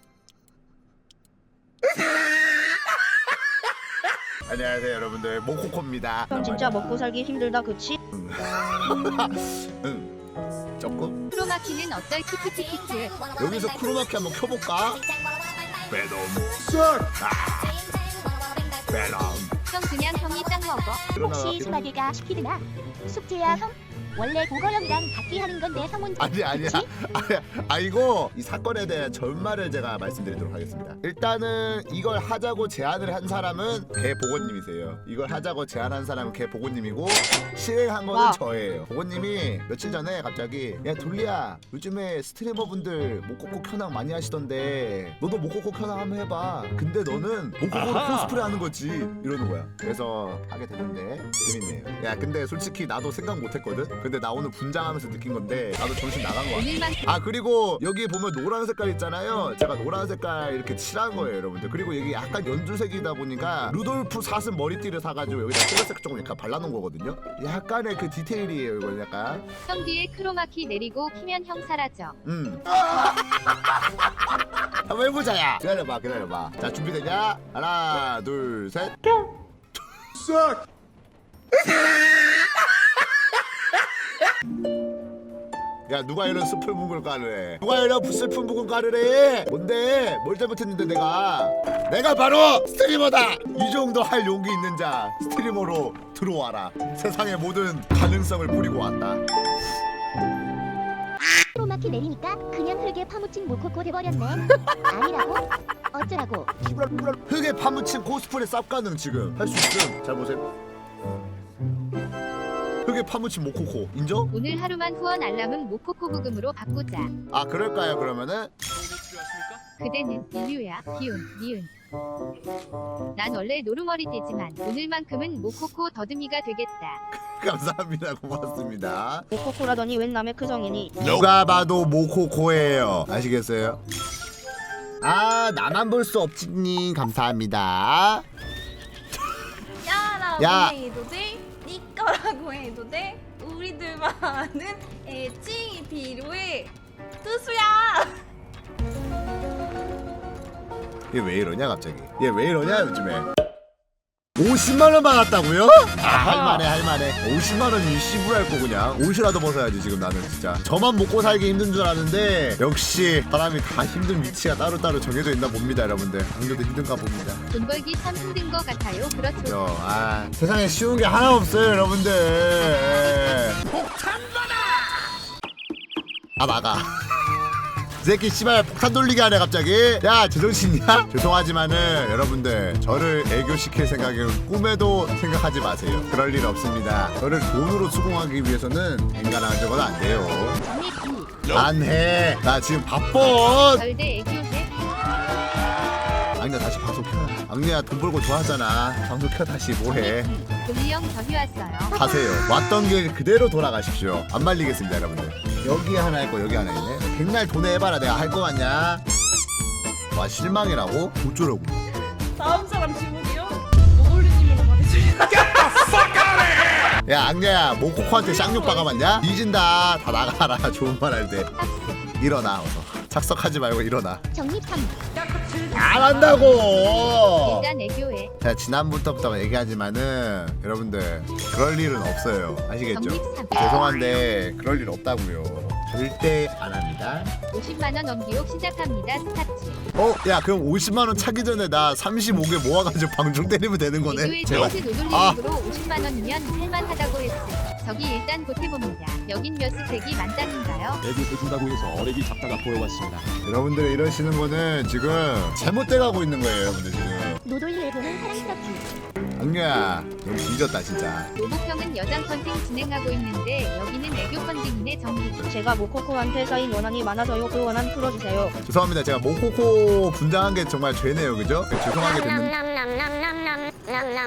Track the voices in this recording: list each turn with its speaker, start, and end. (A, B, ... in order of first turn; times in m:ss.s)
0:04.4-0:07.0 A
0:06.3-0:08.0 B
0:08.1-0:10.1 A
0:10.8-0:11.2 A
0:11.3-0:13.2 C
0:13.3-0:15.1 A
0:15.9-0:18.0 A
0:18.8-0:19.5 A
0:19.6-0:21.0 C
0:21.1-0:26.9 D
0:21.2-0:21.8 A
0:26.2-1:09.4 A
0:38.1-0:38.4 B
0:47.8-0:48.1 E
0:56.5-0:57.1 C
1:09.7-1:12.2 C
1:12.2-1:12.8 A
1:14.8-1:19.0 A
1:25.9-1:39.2 A
1:41.5-1:47.0 D
1:47.1-1:50.4 A
1:52.8-1:54.3 A
1:54.3-1:57.1 C
1:57.3-1:58.5 A
1:59.8-2:01.7 C
2:03.1-2:07.0 C
2:07.1-2:09.3 A
2:09.3-2:11.0 B
2:11.0-2:13.8 A
2:15.0-2:18.2 A
2:19.8-2:28.2 F
2:20.4-2:20.8 A
2:31.1-2:33.3 A
2:34.4-2:47.4 A
2:36.2-2:36.6 E
2:47.5-2:49.6 C
2:49.4-2:54.0 A
2:56.4-2:56.9 A
2:58.0-3:10.6 A
3:10.6-3:11.4 D
3:11.5-3:13.8 A
3:13.7-3:14.7 C
3:16.4-3:20.3 A
3:19.9-3:21.9 C
3:21.9-3:29.0 A
3:30.1-3:31.8 A
3:32.4-3:36.0 F
3:37.0-3:41.5 A
3:38.2-3:38.9 F
3:41.5-3:42.0 C
3:42.2-3:44.2 A
3:44.3-3:45.0 D
3:45.7-3:47.7 A
3:47.4-3:48.3 C
3:48.4-3:57.3 A
3:52.9-3:54.2 C
3:57.5-3:59.8 C
4:00.0-4:05.4 A
4:04.1-4:11.0 C
4:11.0-4:13.3 E
4:13.4-4:17.4 A
4:17.4-4:18.9 D
4:19.4-4:21.3 A
4:21.4-4:25.4 C
4:25.4-4:28.5 B
4:28.6-4:32.6 A